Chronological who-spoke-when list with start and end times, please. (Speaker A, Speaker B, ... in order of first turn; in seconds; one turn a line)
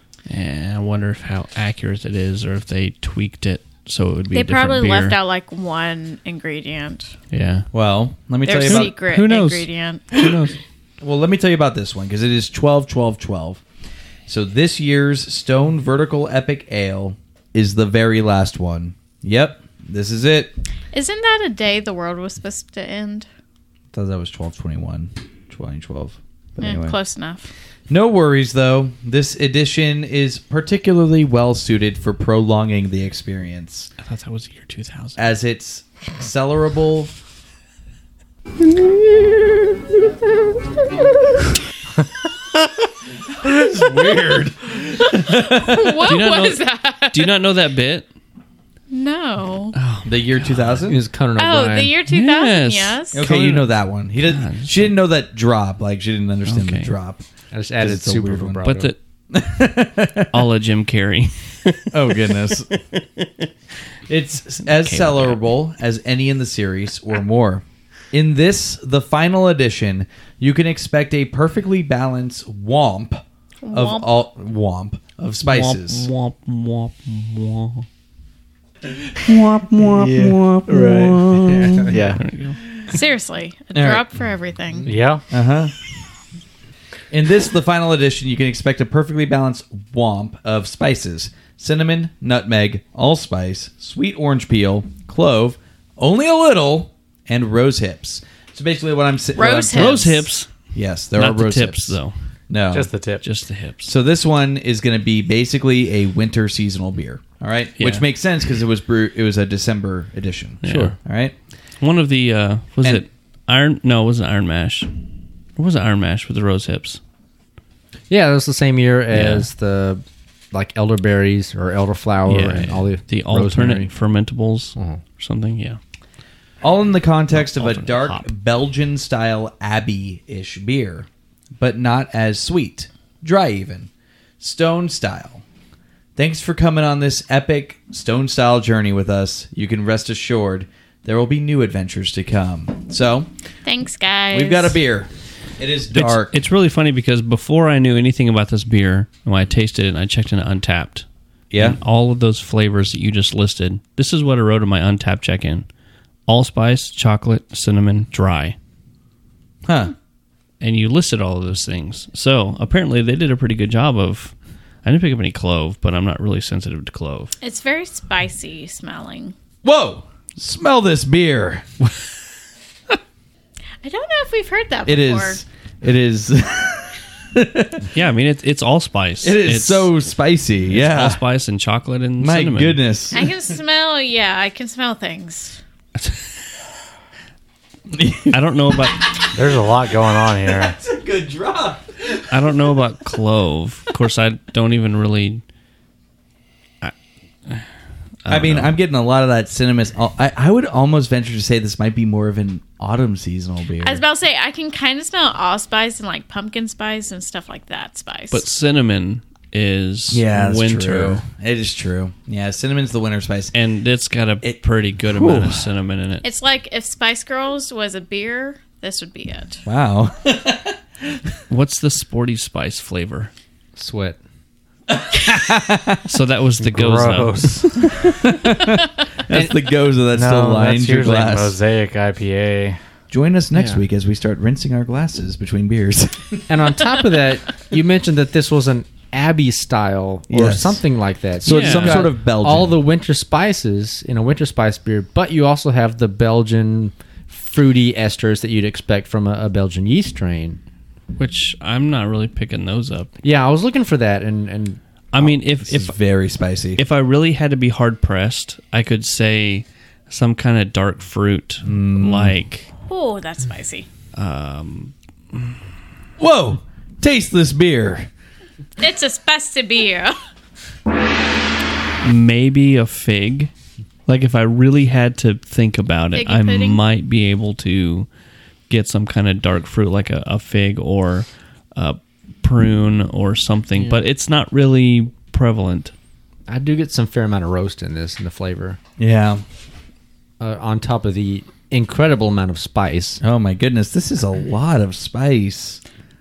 Speaker A: 0.3-5.2
Speaker B: 4.3-7.1
Speaker A: 7.3-7.7
Speaker C: 7.7-9.0
Speaker B: 8.4-10.2
Speaker A: 8.6-10.5
Speaker C: 11.0-13.6
Speaker C: 14.3-20.5
Speaker B: 20.9-23.3
Speaker C: 23.9-27.0
Speaker B: 26.6-27.5
Speaker C: 27.9-33.9
Speaker A: 34.0-35.2
Speaker C: 35.2-37.1
Speaker C: 43.3-46.0
Speaker B: 45.4-47.3
Speaker A: 46.0-48.1
Speaker B: 48.9-49.8
Speaker A: 49.7-50.9
Speaker C: 50.0-51.0
Speaker D: 50.8-52.0
Speaker B: 51.4-53.3
Speaker A: 52.1-53.6
Speaker C: 53.1-57.2
Speaker A: 54.2-55.0
Speaker A: 56.5-56.9
Speaker D: 57.5-58.9
Speaker C: 57.8-58.7
Speaker A: 58.6-59.0
Speaker C: 59.3-60.4
Speaker A: 60.3-63.5
Speaker C: 61.9-62.7
Speaker C: 64.1-76.1
Speaker A: 64.7-65.4
Speaker B: 73.6-74.1
Speaker A: 75.4-77.8
Speaker C: 79.2-82.0
Speaker E: 79.3-82.2
Speaker A: 81.4-82.6
Speaker D: 81.5-82.0
Speaker B: 82.9-84.9
Speaker C: 83.7-84.0
Speaker E: 84.8-85.2
Speaker C: 85.3-85.7
Speaker C: 87.1-100.1
Speaker B: 99.3-100.2
Speaker A: 99.7-100.5
Speaker C: 100.7-102.0
Speaker A: 101.2-102.1
Speaker C: 102.5-102.9
Speaker E: 102.7-103.2
Speaker A: 103.2-103.9
Speaker C: 103.8-111.3
Speaker A: 107.8-108.0
Speaker A: 110.6-111.0
Speaker D: 110.6-110.9
Speaker A: 111.8-114.9
Speaker A: 115.6-117.0
Speaker D: 118.1-123.9
Speaker A: 119.1-119.5
Speaker A: 122.2-125.8
Speaker D: 124.8-125.0
Speaker C: 126.6-131.1
Speaker A: 127.3-128.3
Speaker C: 131.6-135.4
Speaker C: 136.2-143.3
Speaker B: 143.6-144.8
Speaker C: 144.3-146.3
Speaker A: 145.9-151.1
Speaker C: 151.5-151.8
Speaker A: 151.6-155.7
Speaker A: 156.3-158.6
Speaker C: 159.7-159.9
Speaker A: 160.6-164.3
Speaker A: 164.8-167.3
Speaker B: 167.4-169.3
Speaker C: 169.6-171.7
Speaker B: 173.8-175.4
Speaker C: 174.8-177.9
Speaker A: 177.9-179.9
Speaker C: 179.2-181.2
Speaker A: 180.7-182.8
Speaker C: 182.2-183.3
Speaker B: 183.1-185.6
Speaker A: 185.9-186.3
Speaker C: 187.9-188.3
Speaker A: 188.3-189.3
Speaker E: 189.3-190.8
Speaker C: 190.6-192.3
Speaker A: 192.3-195.4
Speaker A: 198.2-198.8
Speaker C: 198.3-204.0
Speaker B: 203.8-208.4
Speaker A: 208.3-211.2
Speaker C: 210.1-213.5
Speaker A: 213.5-216.2
Speaker C: 214.4-215.7
Speaker B: 216.2-219.6
Speaker C: 219.6-221.2
Speaker A: 221.5-223.3
Speaker D: 223.8-224.2
Speaker C: 224.9-226.0
Speaker A: 226.1-227.9
Speaker E: 226.6-227.9
Speaker C: 228.1-231.6
Speaker D: 229.3-229.5
Speaker E: 230.1-232.8
Speaker C: 233.1-236.5
Speaker D: 233.5-233.8
Speaker D: 236.5-250.6
Speaker C: 240.3-240.8
Speaker C: 241.4-242.8
Speaker A: 241.5-242.1
Speaker A: 251.2-253.1
Speaker D: 253.2-254.8
Speaker A: 255.1-255.9
Speaker C: 255.2-256.8
Speaker A: 256.8-262.7
Speaker C: 261.6-262.4
Speaker B: 262.9-263.9
Speaker A: 264.1-264.9
Speaker C: 266.2-268.1
Speaker B: 268.8-270.2
Speaker A: 272.0-273.5
Speaker A: 274.1-278.1
Speaker B: 276.1-276.8
Speaker A: 278.7-285.9
Speaker D: 286.5-288.8
Speaker C: 289.0-289.4
Speaker D: 290.4-293.2
Speaker C: 293.2-295.8